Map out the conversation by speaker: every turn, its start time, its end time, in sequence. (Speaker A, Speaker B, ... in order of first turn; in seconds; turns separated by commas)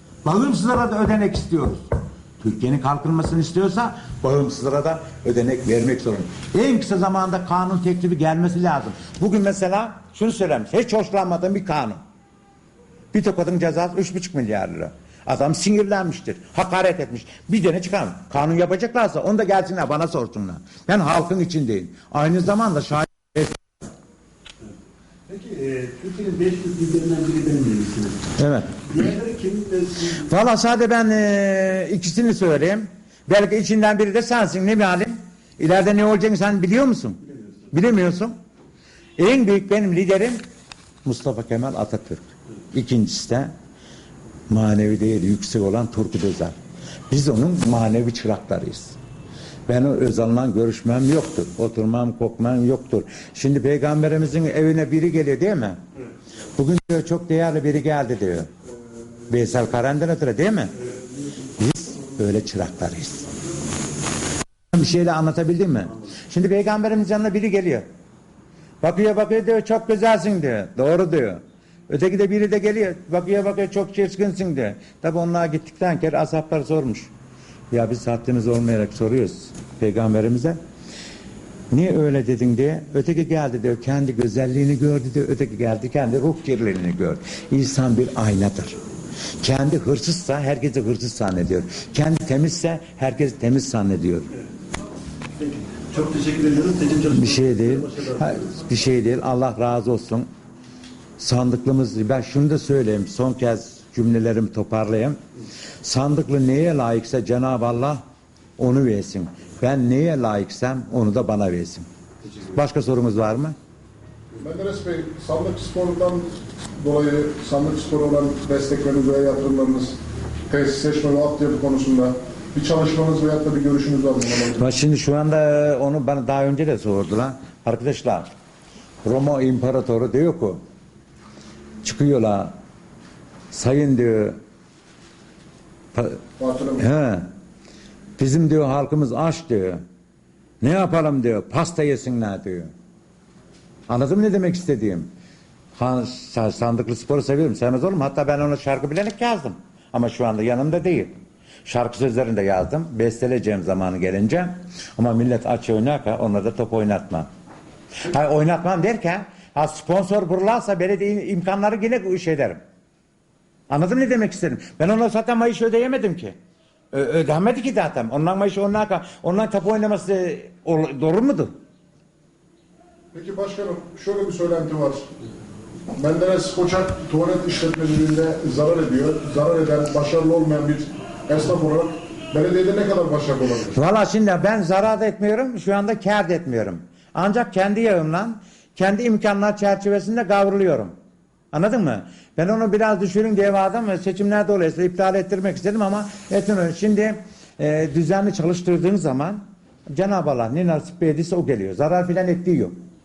Speaker A: 0.2-12.0, Speaker A: 13.1-23.6, Speaker B: 25.3-28.2, Speaker A: 28.4-28.8, Speaker B: 28.9-30.0, Speaker A: 30.1-38.4, Speaker A: 39.2-40.4, Speaker A: 41.0-43.5, Speaker A: 44.5-46.6, Speaker A: 47.1-49.0, Speaker A: 49.7-55.8, Speaker A: 56.5-58.5, Speaker A: 59.3-60.8, Speaker A: 61.5-63.3, Speaker A: 64.7-67.9, Speaker A: 68.8-77.1, Speaker A: 77.7-80.6, Speaker A: 81.7-88.8, Speaker A: 89.4-94.3, Speaker B: 95.4-98.0, Speaker A: 97.1-100.3, Speaker A: 101.2-105.2, Speaker A: 105.8-108.0, Speaker A: 108.6-111.9, Speaker A: 112.5-113.6, Speaker C: 114.4-120.0, Speaker C: 120.5-124.7, Speaker A: 124.5-128.3, Speaker A: 129.0-130.6, Speaker A: 131.8-132.6, Speaker A: 133.5-134.4, Speaker A: 135.9-136.2, Speaker C: 136.4-136.8, Speaker A: 136.8-137.3, Speaker A: 138.2-139.8, Speaker A: 140.6-142.7, Speaker A: 143.9-145.1, Speaker A: 145.8-151.1, Speaker A: 151.7-157.3, Speaker A: 158.0-162.6, Speaker A: 163.7-166.3, Speaker A: 166.9-171.5, Speaker C: 173.1-175.0, Speaker C: 175.9-183.8, Speaker A: 183.7-190.9, Speaker A: 191.5-202.8